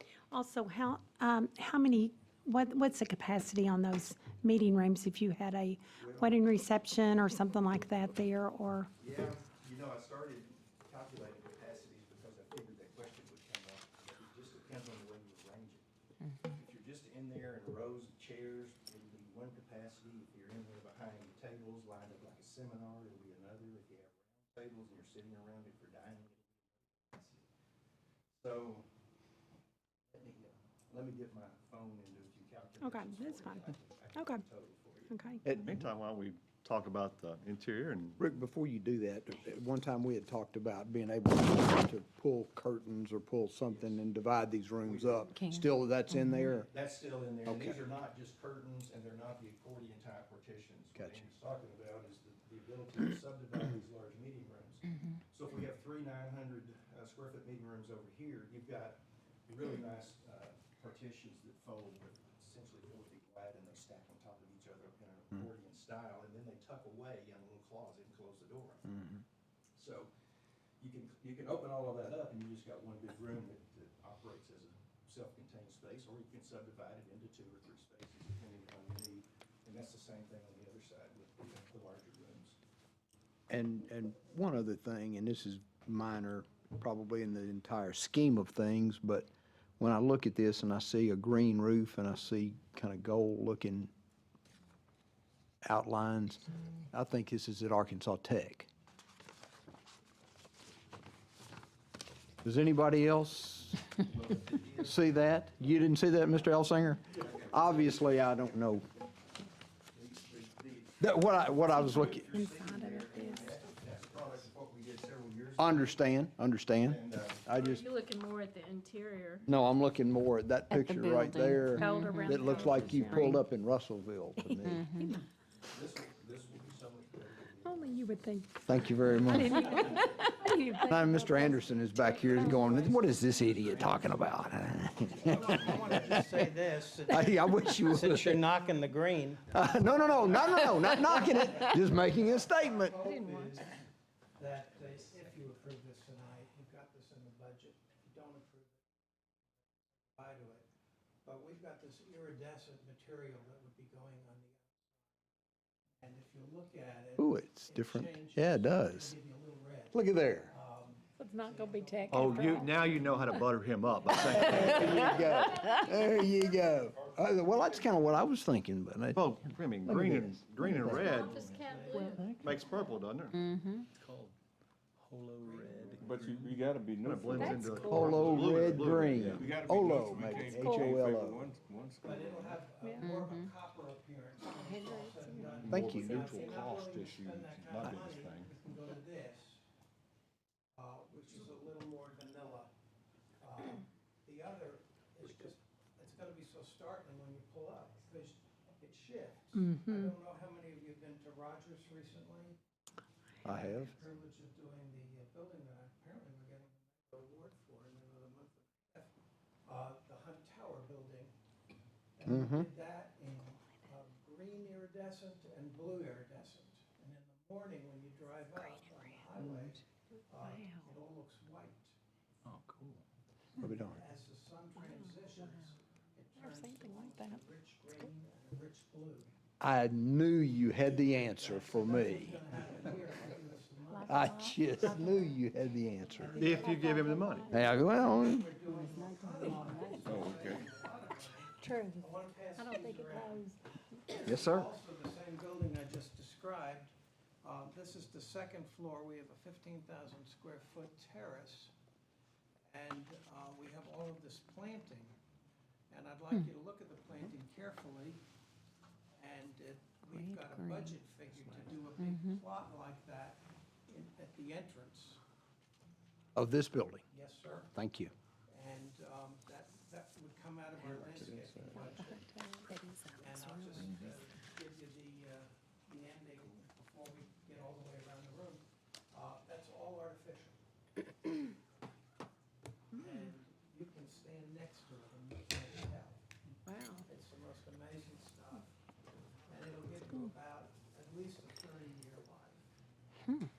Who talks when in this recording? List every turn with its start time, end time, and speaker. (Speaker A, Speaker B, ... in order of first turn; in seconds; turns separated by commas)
Speaker A: 0.3-8.9, Speaker B: 6.0-6.3, Speaker B: 9.0-15.8, Speaker B: 16.5-27.4, Speaker B: 28.4-28.9, Speaker B: 30.1-38.3, Speaker A: 32.8-34.4, Speaker A: 35.1-35.4, Speaker C: 35.4-35.8, Speaker C: 38.2-46.7, Speaker B: 43.7-44.0, Speaker B: 44.8-45.3, Speaker D: 45.3-46.5, Speaker B: 46.7-68.9, Speaker C: 47.5-47.8, Speaker C: 50.9-51.3, Speaker C: 68.9-69.2, Speaker B: 69.8-70.1, Speaker B: 70.8-82.5, Speaker C: 83.5-89.3, Speaker C: 89.8-93.9, Speaker C: 95.6-98.7, Speaker C: 102.4-103.9, Speaker B: 104.0-105.3, Speaker C: 104.8-108.8, Speaker B: 107.1-108.3, Speaker B: 109.9-116.0, Speaker C: 111.0-112.3, Speaker A: 111.6-113.6, Speaker C: 115.6-117.9, Speaker B: 116.8-117.6, Speaker E: 117.5-119.4, Speaker C: 119.5-124.8, Speaker D: 120.7-122.3, Speaker E: 121.7-123.4, Speaker A: 124.4-125.2, Speaker D: 124.7-125.1, Speaker B: 125.7-130.3, Speaker A: 127.6-131.6, Speaker C: 128.6-129.9, Speaker C: 130.8-136.3, Speaker A: 132.1-132.8, Speaker F: 132.4-133.0, Speaker B: 133.4-136.2, Speaker F: 135.2-143.8, Speaker C: 137.1-138.4, Speaker C: 139.5-143.0, Speaker E: 143.0-143.6, Speaker F: 144.3-148.8, Speaker F: 150.0-150.7, Speaker F: 151.2-155.0, Speaker F: 156.0-163.4, Speaker C: 157.2-159.1, Speaker C: 159.9-160.5, Speaker E: 161.2-162.7, Speaker B: 162.1-168.0, Speaker F: 164.0-164.8, Speaker C: 164.1-171.2, Speaker B: 169.1-173.4, Speaker E: 170.9-172.3, Speaker F: 171.0-172.2, Speaker D: 173.3-173.9, Speaker G: 175.1-182.7, Speaker F: 175.4-176.0, Speaker B: 175.9-176.2, Speaker B: 177.0-179.6, Speaker F: 177.4-178.8, Speaker C: 177.9-181.5, Speaker F: 182.0-189.6, Speaker D: 182.9-183.5, Speaker E: 184.6-185.5, Speaker B: 185.5-188.5, Speaker C: 185.7-186.3, Speaker F: 190.8-192.7, Speaker F: 193.4-202.6, Speaker A: 199.6-200.1, Speaker F: 203.4-209.1, Speaker C: 203.4-203.9, Speaker F: 209.6-211.3, Speaker F: 212.2-221.9, Speaker C: 212.2-212.7, Speaker C: 219.4-219.7, Speaker D: 220.4-220.8, Speaker B: 222.4-223.0, Speaker C: 223.6-224.0, Speaker F: 223.6-229.3, Speaker D: 226.8-227.3, Speaker C: 229.6-232.4, Speaker F: 230.8-234.3, Speaker D: 234.0-234.5, Speaker C: 234.1-236.4, Speaker E: 234.2-234.8, Speaker F: 236.1-251.7, Speaker B: 236.3-237.5, Speaker A: 236.5-237.4, Speaker C: 237.5-238.5, Speaker D: 238.7-240.3, Speaker E: 238.8-240.2, Speaker G: 240.0-240.6, Speaker A: 241.6-242.0, Speaker E: 242.7-243.4, Speaker A: 243.2-243.4, Speaker C: 244.2-244.7, Speaker F: 252.7-255.2, Speaker F: 255.9-258.2, Speaker F: 259.2-265.2, Speaker D: 260.1-260.9, Speaker D: 262.0-262.4, Speaker C: 266.3-267.0, Speaker F: 267.1-267.7, Speaker C: 267.7-268.1, Speaker F: 268.5-272.2, Speaker G: 270.9-271.9, Speaker A: 272.2-272.6, Speaker F: 273.2-280.6, Speaker F: 282.9-288.7, Speaker F: 289.5-292.6